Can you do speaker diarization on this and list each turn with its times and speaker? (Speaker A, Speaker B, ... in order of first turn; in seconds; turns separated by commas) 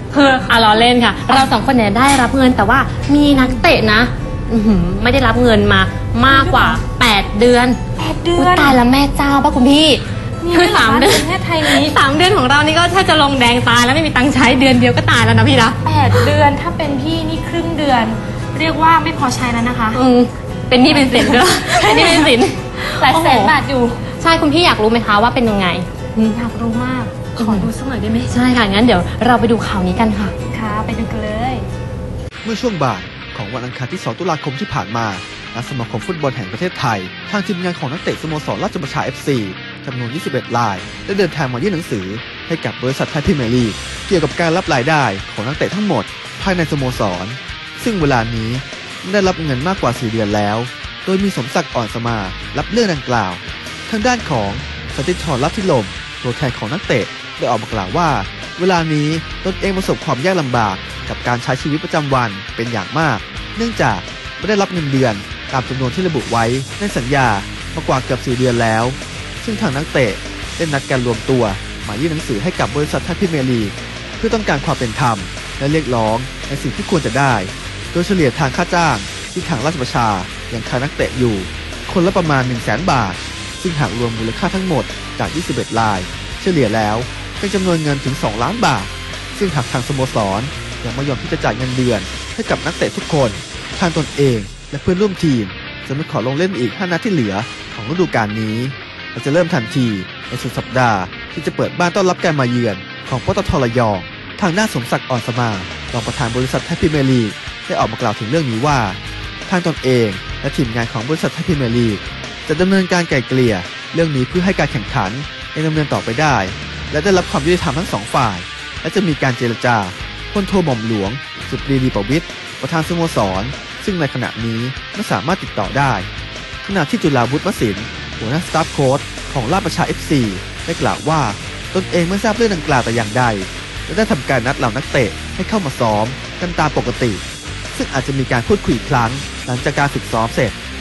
Speaker A: 0.1-7.8, Speaker B: 3.3-3.6, Speaker B: 6.3-6.8, Speaker B: 8.0-8.8, Speaker A: 8.3-16.3, Speaker B: 10.4-12.0, Speaker B: 15.8-20.0, Speaker A: 19.9-23.5, Speaker B: 20.8-22.4, Speaker B: 23.0-24.0, Speaker A: 24.1-26.4, Speaker B: 26.3-28.4, Speaker A: 27.3-27.7, Speaker A: 28.3-30.3, Speaker B: 30.5-31.7, Speaker C: 32.4-126.1, Speaker C: 126.6-140.6